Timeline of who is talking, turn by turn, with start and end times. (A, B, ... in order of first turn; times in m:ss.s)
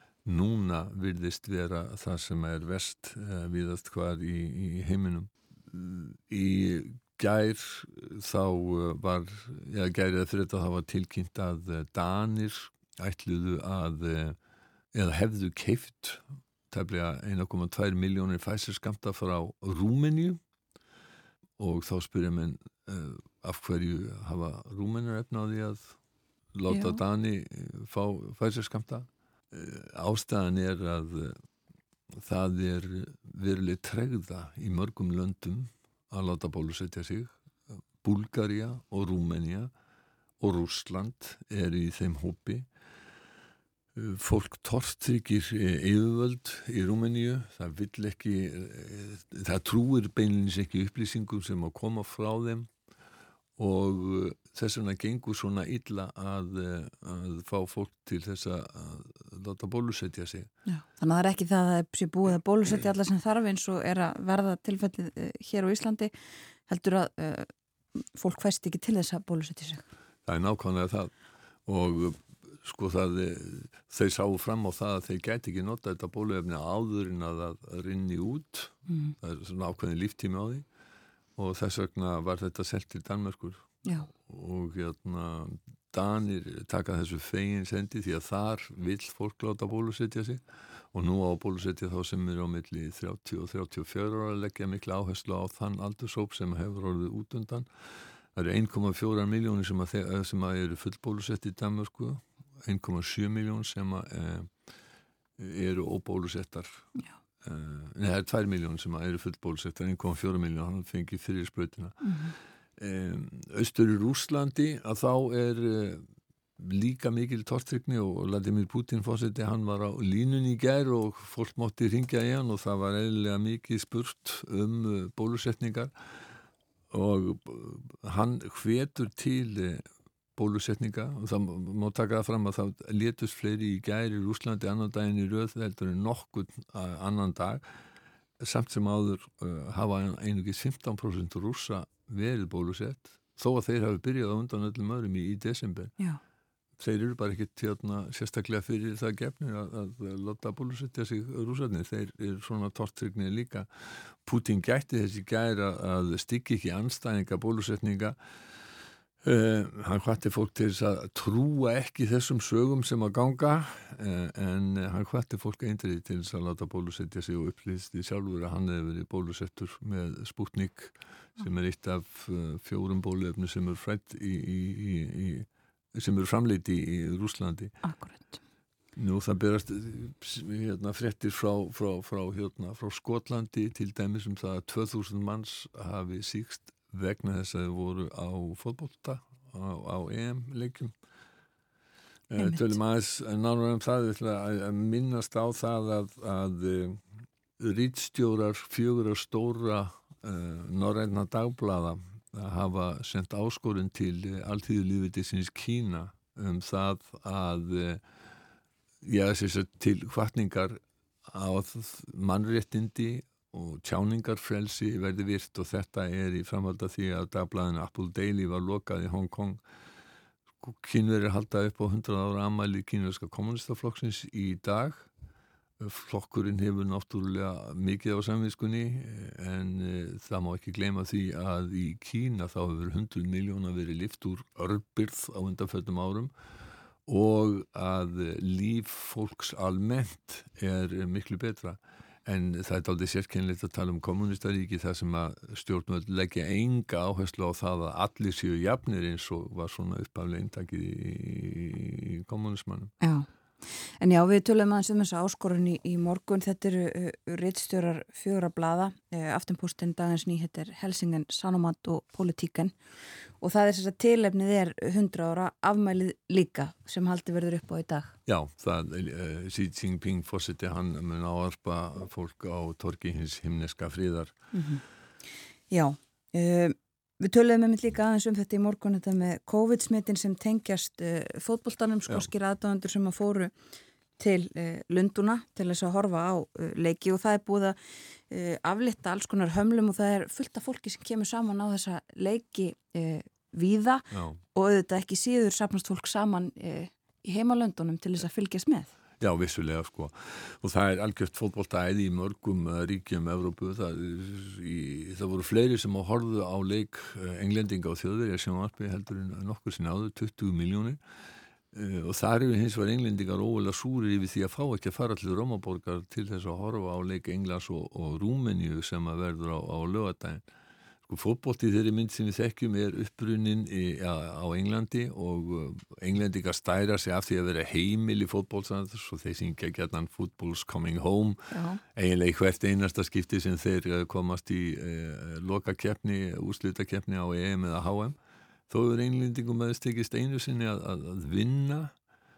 0:00.3-0:14.4 A
0:14.9-0:20.4 A
0:21.6-0:26.0 A
0:26.6-0:31.4 A
0:26.7-0:27.0 B
0:32.2-0:37.4 A
0:38.0-0:39.7 A
0:40.4-0:42.7 A
0:44.0-0:52.7 A
0:53.6-1:00.5 A
1:00.7-1:06.1 B
1:06.7-1:09.8 B
1:10.3-1:11.1 A
1:11.7-1:20.6 A
1:18.9-1:19.2 B
1:21.4-1:30.4 A
1:30.9-1:37.7 A
1:38.4-1:44.5 A
1:45.4-1:46.9 A
1:47.4-1:52.2 A
1:52.0-1:52.3 B
1:52.8-1:56.0 A
1:56.6-2:05.9 A
2:06.9-2:09.8 A
2:10.4-2:17.6 A
2:18.4-2:26.0 A
2:26.8-2:38.2 A
2:39.2-2:57.8 A
2:57.8-2:58.4 B
2:59.0-3:10.9 A
3:12.3-3:17.0 A
3:12.4-3:12.8 B
3:17.6-3:28.0 A
3:29.0-3:39.6 A
3:40.6-3:45.1 A
3:45.8-3:56.3 A
3:57.1-4:12.9 A
4:13.0-4:22.8 B
4:23.4-4:28.1 B
4:28.3-4:34.3 A
4:34.5-4:34.8 B
4:35.7-4:43.5 B
4:44.2-4:47.8 B
4:48.3-4:58.9 B
4:54.1-4:54.4 A
4:59.2-5:11.0 A
5:11.7-5:20.4 A
5:21.1-5:31.4 A
5:31.5-5:31.8 B
5:32.0-5:38.2 A
5:38.7-5:41.9 A